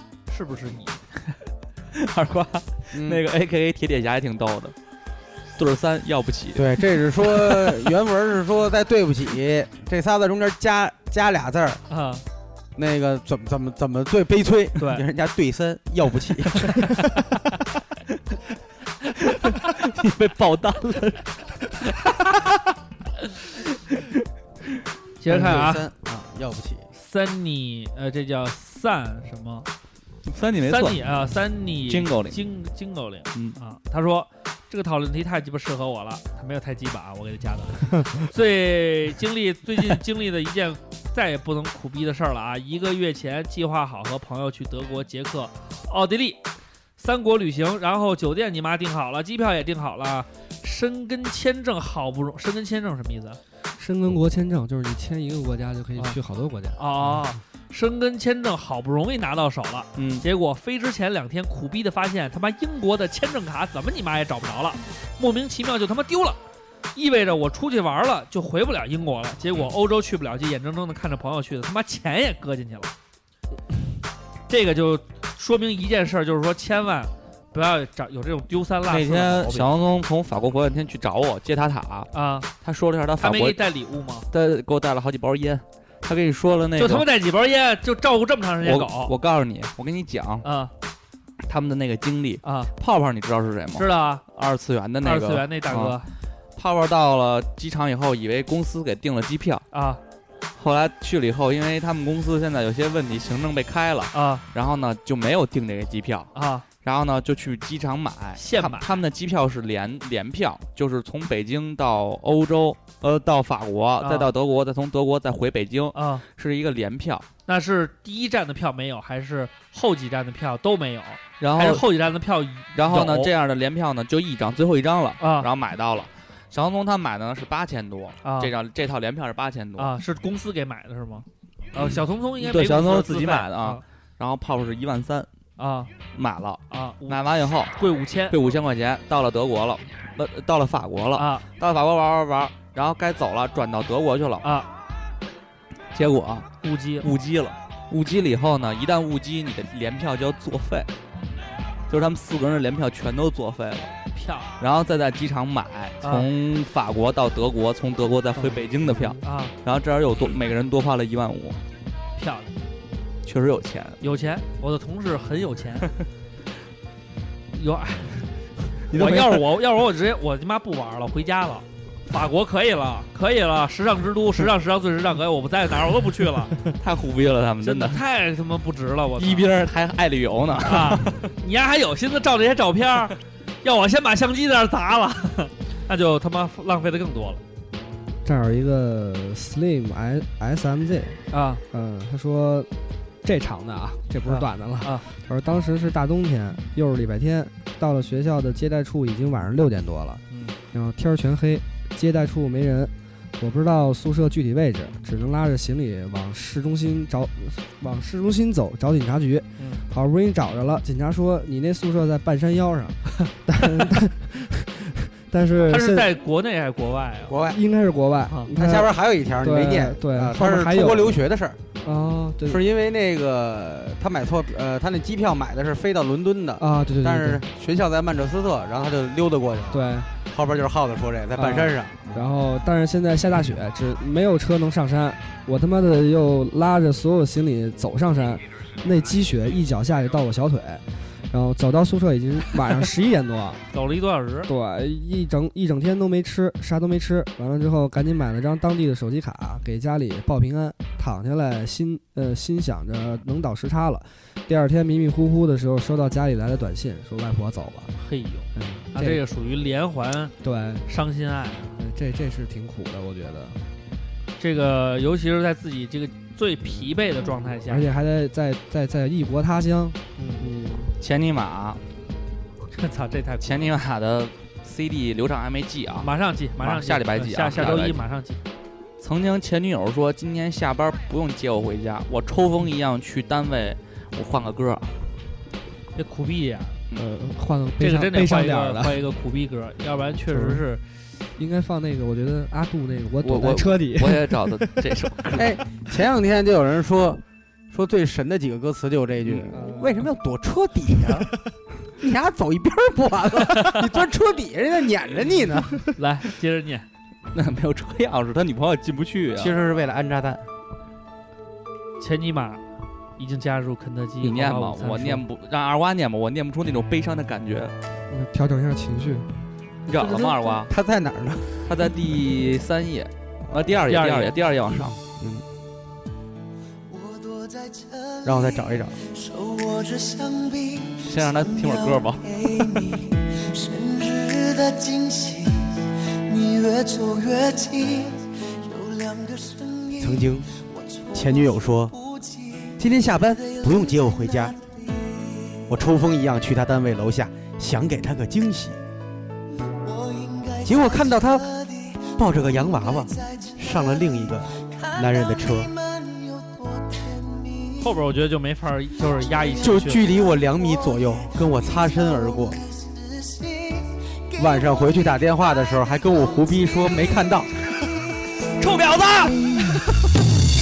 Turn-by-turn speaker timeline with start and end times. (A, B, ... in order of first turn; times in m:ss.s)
0:00.3-0:01.3 A
0:01.9-0:04.7 B
0:02.9-0:03.2 C
0:05.6-0:07.8 B
0:06.5-0:11.8 C
0:11.9-0:12.2 A
0:12.8-0:16.9 C
0:14.8-0:15.0 A
0:19.2-0:21.3 B
0:25.2-0:25.8 A
0:25.3-0:26.9 C
0:26.9-0:29.7 A
0:30.2-0:31.0 B
0:30.6-0:46.4 A
0:31.9-0:32.4 B
0:47.0-0:53.4 A
0:53.8-0:57.2 D
0:56.8-1:06.4 A
1:00.0-1:00.2 B
1:06.9-1:12.9 A
1:14.5-1:19.7 A
1:18.9-1:22.1 B
1:22.1-1:22.5 A
1:22.6-1:23.6 B
1:23.2-1:24.3 A
1:24.3-1:27.0 B
1:26.8-1:29.1 A
1:28.6-1:30.4 B
1:30.4-1:30.7 A
1:31.4-1:36.0 B
1:32.4-1:32.7 A
1:33.8-1:34.2 A
1:35.0-1:36.1 A
1:36.6-1:39.6 B
1:39.7-1:40.0 A
1:40.6-1:57.3 B
1:44.1-1:44.4 A
1:46.3-1:46.6 A
1:48.4-1:49.0 A
1:54.0-1:54.3 A
1:55.9-1:56.2 A
1:57.5-2:03.3 A
2:01.4-2:01.8 B
2:02.7-2:09.9 B
2:05.2-2:05.5 A
2:08.2-2:08.5 A
2:09.8-2:13.8 A
2:11.8-2:15.3 B
2:15.6-2:15.9 A
2:16.1-2:17.8 B
2:16.7-2:17.2 A
2:17.7-2:18.4 A
2:18.3-2:24.5 B
2:21.2-2:21.4 A
2:24.4-2:24.7 A
2:25.9-2:26.5 B
2:26.6-2:27.1 A
2:27.0-2:30.9 B
2:31.9-2:33.9 B
2:34.1-2:34.5 A
2:34.6-2:41.6 B
2:36.0-2:36.3 A
2:38.4-2:39.2 D
2:39.2-2:39.5 A
2:42.2-2:42.5 A
2:43.2-2:44.0 B
2:44.0-2:45.9 A
2:47.5-2:56.6 A
2:48.9-2:49.4 B
2:56.6-2:58.0 B
2:57.6-2:59.5 A
2:59.2-3:01.3 B
3:00.6-3:07.4 A
3:08.2-3:12.7 D
3:11.3-3:11.6 A
3:13.2-3:36.1 D
3:14.2-3:15.1 A
3:20.3-3:20.6 A
3:35.7-3:37.4 A
3:37.3-3:37.6 C
3:37.4-3:41.2 D
3:38.5-3:41.6 C
3:41.8-3:42.6 D
3:42.4-3:52.2 C
3:46.6-3:47.4 D
3:49.7-3:50.1 D
3:51.4-4:03.6 D
4:03.7-4:04.5 A
4:04.5-4:17.9 D
4:18.0-4:20.3 A
4:18.5-4:19.2 D
4:20.4-4:20.9 D
4:20.9-4:21.8 A
4:21.8-4:23.6 D
4:24.4-4:27.9 A
4:27.7-4:30.9 D
4:30.2-4:30.5 A
4:31.0-4:31.8 B
4:32.7-4:33.7 A
4:33.4-4:38.0 B
4:36.0-4:38.4 A
4:39.0-4:44.9 B
4:46.0-4:46.8 A
4:46.9-4:49.0 D
4:47.8-4:50.8 A
4:50.3-4:50.6 D
4:51.4-4:55.3 D
4:53.2-4:55.6 B
4:55.3-5:01.3 C
4:59.5-5:00.0 D
5:02.0-5:05.9 C
5:03.5-5:03.8 A
5:06.0-5:06.9 A
5:07.3-5:09.6 B
5:09.4-5:10.4 C
5:12.0-5:12.6 A
5:13.2-5:15.2 A
5:14.2-5:17.7 B
5:18.1-5:19.3 D
5:19.9-5:20.7 B
5:20.0-5:21.6 C
5:21.6-5:25.0 B
5:23.9-5:24.3 A
5:25.2-5:25.4 C
5:26.9-5:28.5 E
5:28.2-5:29.0 C
5:29.0-5:42.7 E
5:31.0-5:32.3 B
5:40.0-5:40.5 C
5:41.1-5:41.9 C
5:42.8-5:44.5 C
5:43.5-5:45.6 E
5:45.7-5:48.8 C
5:49.8-5:52.2 E
5:50.6-5:51.5 C
5:52.2-5:55.7 C
5:52.7-5:53.8 E
5:54.6-5:57.9 E
5:57.8-6:00.0 A
5:59.6-6:02.6 C
6:00.6-6:01.1 E
6:02.6-6:04.4 E
6:04.4-6:07.5 C
6:08.6-6:09.4 B